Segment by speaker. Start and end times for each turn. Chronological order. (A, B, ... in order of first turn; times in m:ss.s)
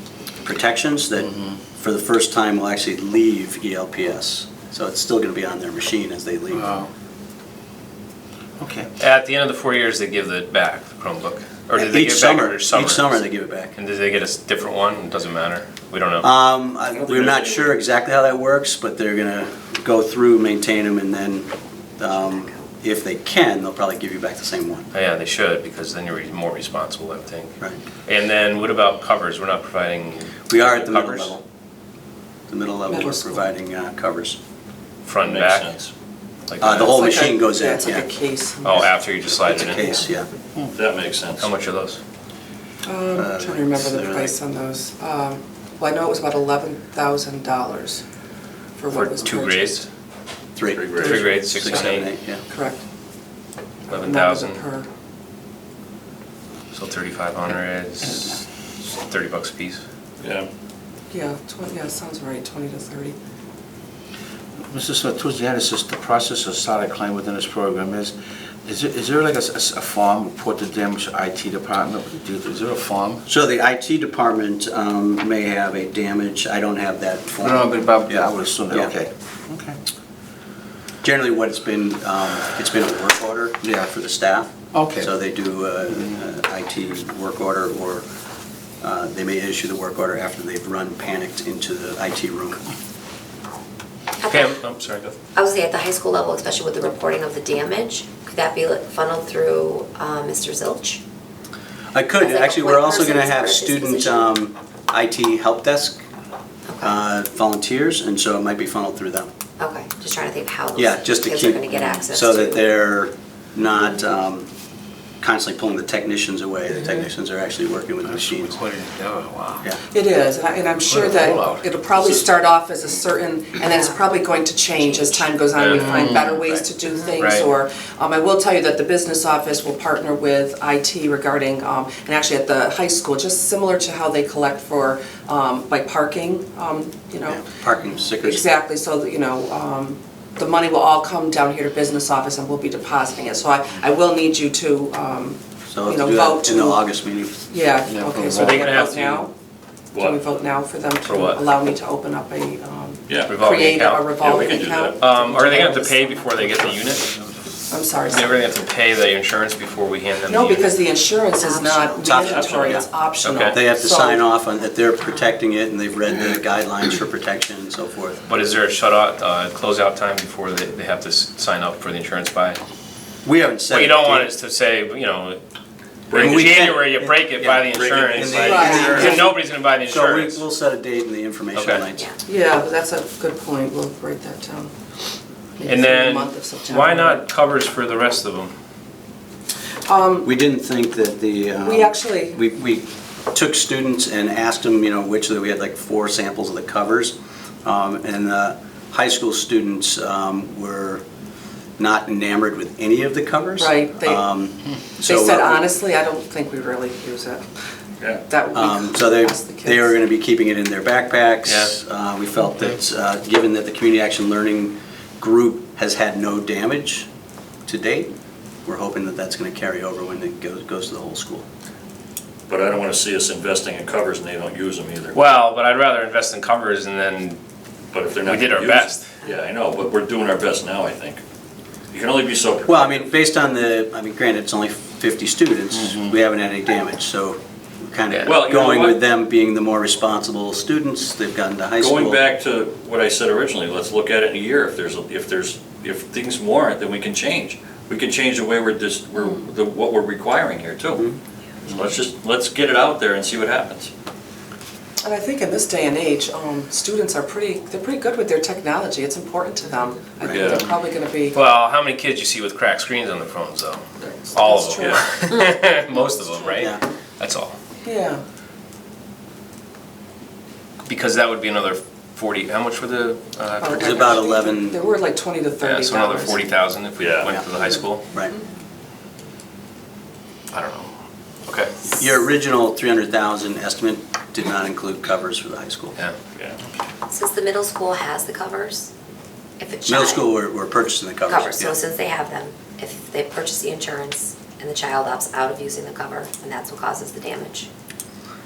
0:00.4-0:06.8 A
0:08.6-0:08.9 B
0:09.0-0:13.2 C
0:11.8-0:13.7 A
0:13.7-0:16.3 C
0:16.2-0:24.9 A
0:16.9-0:17.8 D
0:22.1-0:22.6 E
0:24.9-0:27.5 C
0:28.0-0:31.4 C
0:30.5-0:31.4 A
0:32.5-0:34.4 A
0:32.9-0:33.5 F
0:35.0-0:35.7 C
0:35.2-0:35.9 D
0:36.5-0:36.9 C
0:36.6-0:38.1 A
0:36.9-0:38.9 F
0:38.6-0:39.9 C
0:39.3-0:40.3 A
0:40.7-0:41.5 D
0:41.4-0:42.0 C
0:42.8-0:48.0 F
0:43.1-0:44.3 A
0:48.8-0:49.7 F
0:48.9-0:49.9 C
0:50.6-0:52.4 A
0:50.7-0:51.2 D
0:51.0-0:51.8 F
0:51.0-0:52.1 C
0:52.5-0:52.8 F
0:53.9-0:54.9 F
0:53.9-0:54.6 C
0:56.7-0:59.8 C
1:00.2-1:00.5 D
1:01.1-1:03.2 F
1:04.7-1:13.2 B
1:13.2-1:18.9 A
1:17.4-1:19.8 B
1:21.0-1:28.0 A
1:23.6-1:23.9 B
1:24.7-1:25.1 B
1:28.8-1:32.6 A
1:34.2-1:34.6 E
1:34.3-1:35.2 C
1:35.3-1:41.0 E
1:41.9-1:46.0 A
1:42.2-1:44.3 E
1:46.7-1:47.0 E
1:46.8-1:49.3 A
1:49.6-1:52.6 E
1:50.8-1:54.5 A
1:55.2-1:58.6 A
1:58.0-1:59.6 B
1:59.9-2:17.4 F
2:00.8-2:01.7 B
2:05.5-2:06.2 C
2:07.2-2:07.4 C
2:17.3-2:18.4 A
2:18.2-2:26.8 F
2:25.7-2:27.5 A
2:27.5-2:29.3 F
2:27.9-2:29.0 B
2:28.4-2:29.1 C
2:29.9-2:30.2 D
2:29.9-2:36.6 F
2:33.1-2:33.4 D
2:33.2-2:34.4 C
2:34.2-2:35.0 D
2:35.0-2:37.2 C
2:37.7-2:38.3 F
2:38.1-2:40.7 C
2:40.3-2:44.2 F
2:41.4-2:42.4 E
2:42.0-2:42.8 A
2:42.1-2:42.8 D
2:43.2-2:43.6 C
2:43.5-2:48.2 A
2:45.0-2:45.3 E
2:48.2-2:52.6 C
2:53.2-2:54.3 A
2:53.7-2:55.4 C
2:56.1-2:56.5 D
2:56.1-3:00.4 C
2:56.1-2:59.2 A
2:57.7-2:58.6 D
2:58.3-2:59.3 F
2:59.8-3:02.1 A
3:01.5-3:01.8 C
3:02.2-3:04.7 F
3:05.6-3:07.2 F
3:05.6-3:08.5 C
3:09.8-3:10.3 F
3:10.2-3:21.0 A
3:11.6-3:12.4 F
3:21.8-3:25.6 A
3:23.6-3:24.2 F
3:25.0-3:27.5 F
3:28.2-3:30.0 F
3:28.5-3:37.1 A
3:31.5-3:31.7 C
3:37.6-3:38.1 A
3:38.6-3:41.5 A
3:42.5-3:45.2 D
3:45.1-3:47.4 C
3:47.9-3:51.2 D
3:48.2-3:49.1 C
3:51.9-3:53.1 D
3:52.6-4:02.2 A
3:58.1-3:58.4 C
3:58.2-3:59.0 D
4:01.8-4:11.0 D
4:11.6-4:13.9 D
4:15.0-4:21.4 F
4:20.2-4:20.7 D
4:21.3-4:27.6 C
4:24.4-4:25.0 F
4:24.8-4:25.0 D
4:27.8-4:28.2 F
4:30.8-4:34.2 C
4:33.6-4:36.4 F
4:33.8-4:34.8 A
4:35.6-4:38.1 C
4:37.0-4:37.3 D
4:40.5-4:40.9 C
4:41.5-4:41.7 C
4:41.9-4:46.0 A
4:47.1-4:48.9 E
4:49.6-4:50.3 E
4:49.9-4:51.8 A
4:51.3-4:57.7 E